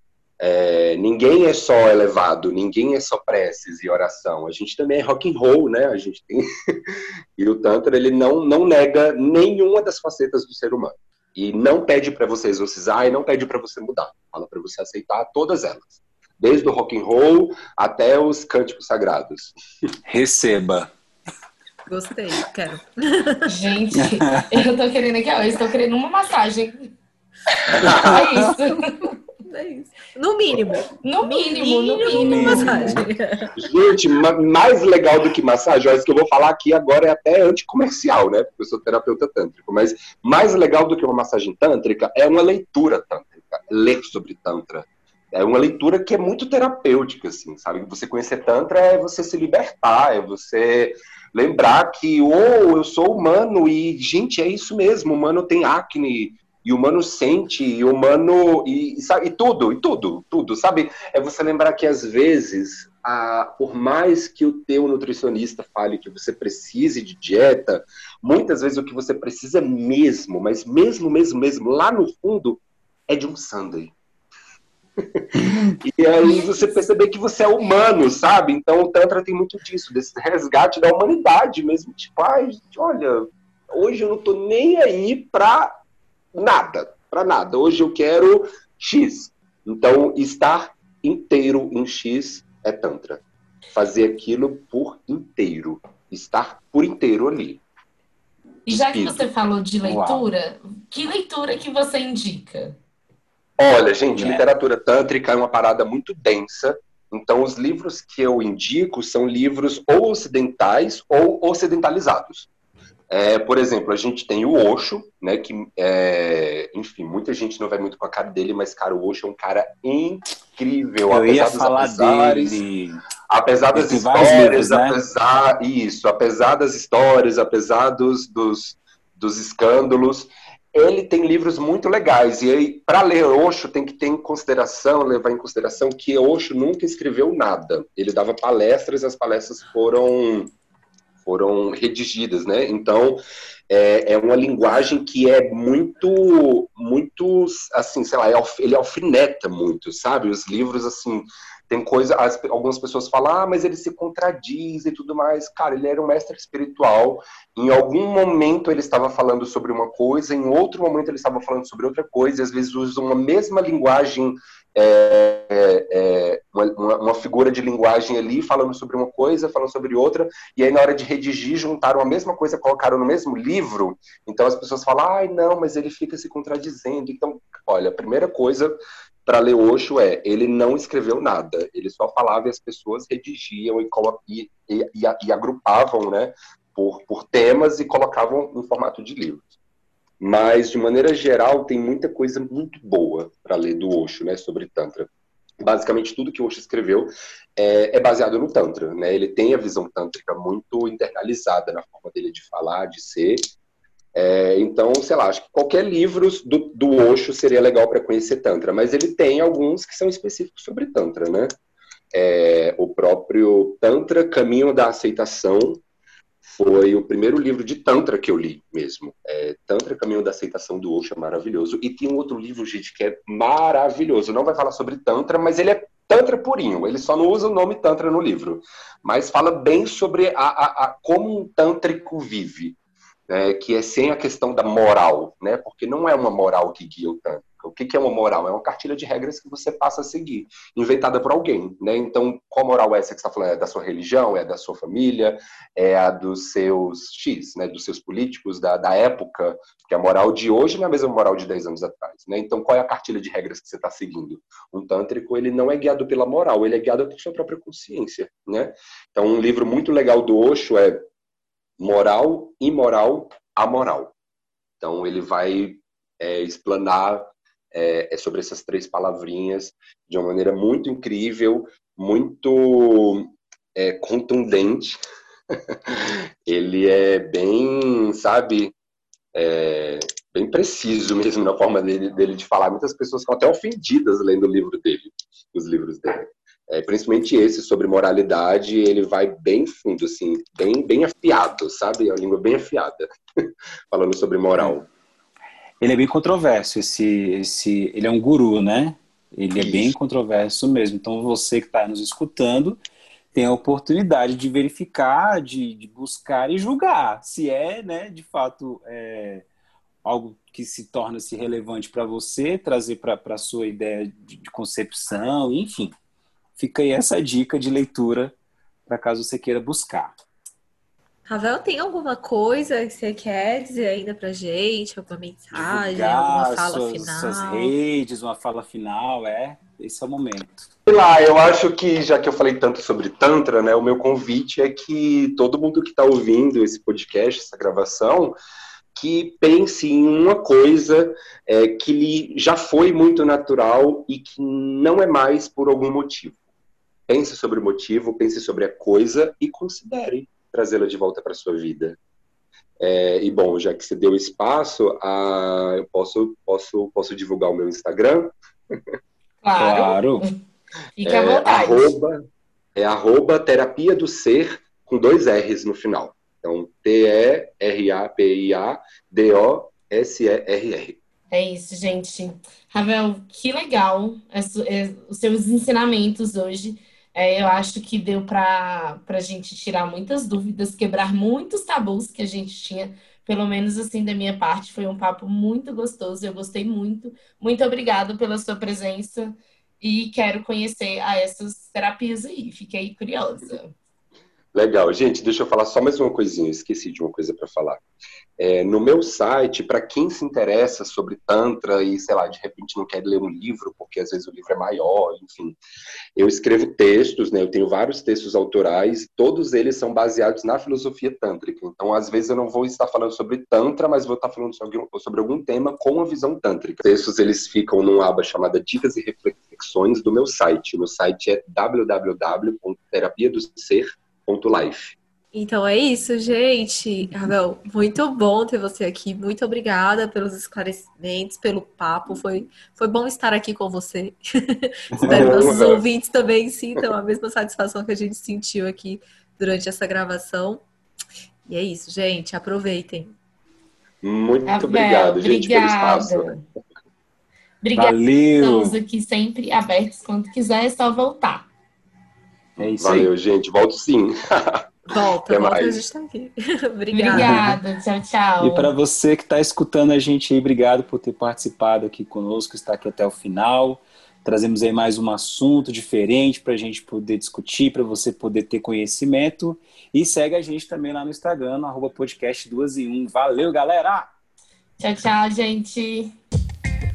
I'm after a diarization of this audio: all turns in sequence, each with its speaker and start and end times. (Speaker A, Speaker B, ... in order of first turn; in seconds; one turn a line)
Speaker A: 0.4-19.5
Speaker B: 20.1-20.9
Speaker C: 21.9-23.8
Speaker D: 23.5-26.9
Speaker B: 23.9-24.7
Speaker B: 27.7-28.5
Speaker A: 27.7-28.2
Speaker D: 27.8-29.1
Speaker C: 29.4-33.7
Speaker D: 31.0-33.1
Speaker B: 32.0-33.1
Speaker A: 33.6-74.0
Speaker A: 75.0-85.7
Speaker B: 75.3-75.8
Speaker D: 76.2-76.8
Speaker A: 86.3-93.2
Speaker A: 93.7-97.6
Speaker D: 98.7-102.8
Speaker A: 98.7-99.3
Speaker B: 99.8-100.3
Speaker A: 103.6-112.5
Speaker B: 104.2-104.4
Speaker A: 113.1-122.6
Speaker B: 121.1-123.0
Speaker A: 123.3-140.5
Speaker B: 123.7-125.0
Speaker A: 141.2-189.4
Speaker A: 190.2-195.1
Speaker A: 195.6-203.5
Speaker A: 204.2-211.6
Speaker A: 212.1-215.8
Speaker A: 216.4-232.8
Speaker A: 233.3-261.1
Speaker A: 261.8-264.1
Speaker A: 264.8-275.0
Speaker A: 275.7-278.7
Speaker A: 279.3-293.1
Speaker A: 293.9-294.9
Speaker B: 295.8-302.8
Speaker A: 299.6-299.9
Speaker B: 303.3-309.5
Speaker B: 310.1-315.9
Speaker B: 316.6-318.3
Speaker B: 318.9-320.2
Speaker C: 321.3-327.7
Speaker B: 325.5-330.7
Speaker A: 330.9-338.4
Speaker A: 338.9-346.4
Speaker A: 347.1-352.0
Speaker A: 352.8-358.3
Speaker D: 359.4-360.3
Speaker B: 359.6-360.2
Speaker D: 361.0-361.9
Speaker A: 361.0-362.2
Speaker A: 362.8-371.0
Speaker D: 371.3-393.8
Speaker A: 394.5-397.8
Speaker A: 398.4-405.6
Speaker A: 406.1-425.0
Speaker C: 425.3-440.6
Speaker B: 435.0-435.5
Speaker A: 435.1-435.8
Speaker C: 441.5-443.1
Speaker A: 444.0-446.4
Speaker D: 444.5-446.4
Speaker D: 447.6-451.5
Speaker B: 447.8-448.8
Speaker A: 452.6-454.7
Speaker B: 452.6-453.1
Speaker C: 454.9-457.3
Speaker A: 455.3-455.8
Speaker D: 456.9-458.7
Speaker B: 457.1-457.6
Speaker B: 458.4-474.1
Speaker D: 474.8-476.1